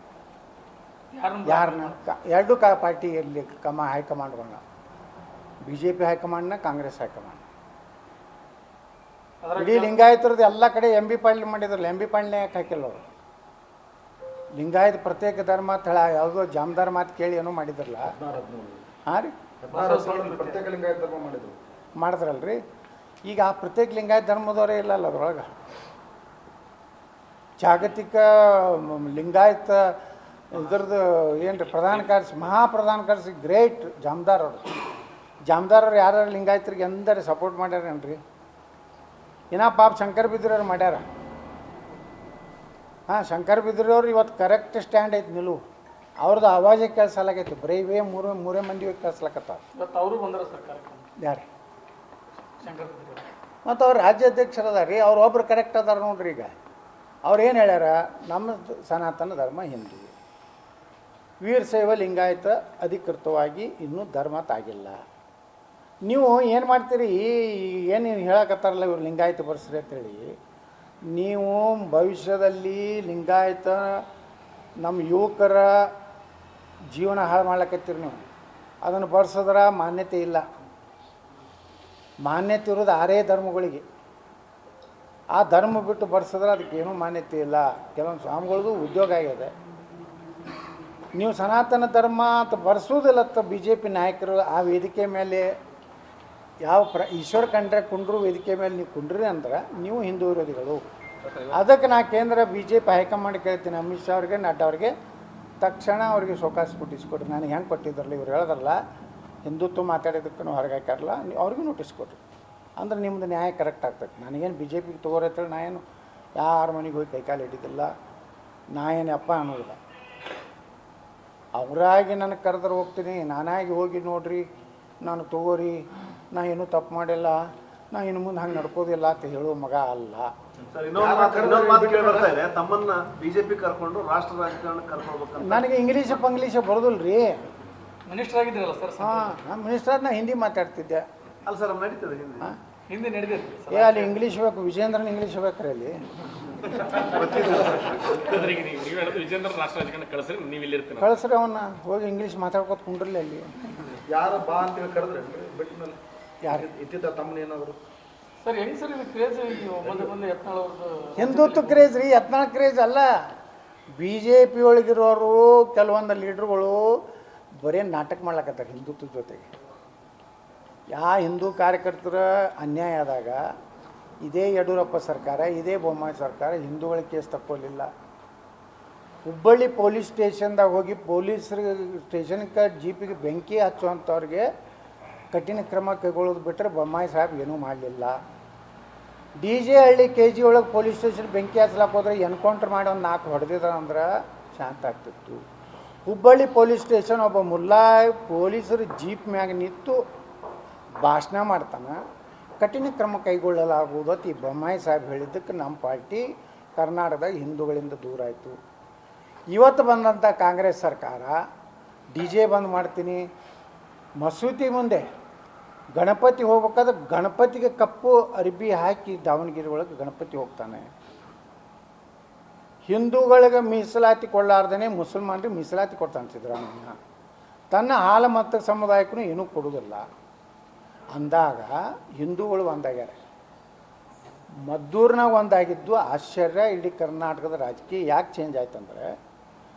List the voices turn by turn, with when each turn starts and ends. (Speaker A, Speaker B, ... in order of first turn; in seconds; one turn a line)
Speaker A: 1.1-2.0
Speaker B: 1.4-4.6
Speaker B: 5.7-7.5
Speaker A: 9.4-10.0
Speaker B: 9.6-13.0
Speaker B: 14.6-18.1
Speaker C: 18.1-18.9
Speaker B: 19.1-19.3
Speaker C: 19.6-21.6
Speaker A: 19.7-20.6
Speaker B: 22.0-22.6
Speaker B: 23.2-25.5
Speaker B: 27.6-30.0
Speaker B: 30.5-34.6
Speaker B: 35.5-38.2
Speaker B: 39.5-41.0
Speaker B: 43.1-45.6
Speaker B: 46.2-49.6
Speaker A: 49.8-51.1
Speaker B: 51.2-51.5
Speaker A: 52.6-53.3
Speaker B: 53.6-56.6
Speaker B: 57.2-60.1
Speaker B: 61.4-65.0
Speaker B: 66.0-70.3
Speaker B: 71.1-74.0
Speaker B: 74.8-75.9
Speaker B: 76.9-78.2
Speaker B: 78.8-80.4
Speaker B: 82.2-83.8
Speaker B: 85.3-89.5
Speaker B: 91.2-95.5
Speaker B: 96.6-100.8
Speaker B: 101.5-104.9
Speaker B: 105.6-108.8
Speaker B: 109.5-112.2
Speaker B: 112.8-115.8
Speaker B: 116.4-117.9
Speaker B: 118.7-119.8
Speaker B: 121.5-124.5
Speaker B: 125.0-127.4
Speaker B: 127.9-130.3
Speaker D: 130.7-135.7
Speaker C: 130.9-132.3
Speaker B: 135.4-137.4
Speaker A: 138.1-139.4
Speaker B: 139.0-141.1
Speaker D: 141.5-142.5
Speaker A: 142.9-144.2
Speaker B: 143.7-146.0
Speaker E: 146.7-147.1
Speaker D: 147.0-148.3
Speaker E: 148.2-151.1
Speaker B: 151.0-153.5
Speaker C: 154.1-156.0
Speaker C: 156.5-157.8
Speaker A: 158.4-161.9
Speaker C: 159.8-160.1
Speaker B: 161.2-163.1
Speaker B: 164.0-167.0
Speaker B: 167.6-169.4
Speaker B: 170.9-173.4
Speaker B: 174.2-177.9
Speaker B: 179.2-184.5
Speaker B: 185.3-188.2
Speaker B: 189.4-195.4
Speaker B: 196.1-200.0
Speaker B: 201.0-202.0
Speaker B: 202.6-206.2
Speaker B: 206.8-208.6
Speaker B: 209.5-211.4
Speaker B: 212.1-213.3
Speaker B: 214.2-215.1
Speaker B: 215.9-220.9
Speaker B: 222.9-226.9
Speaker B: 227.7-230.0
Speaker B: 231.2-233.2
Speaker B: 234.7-239.1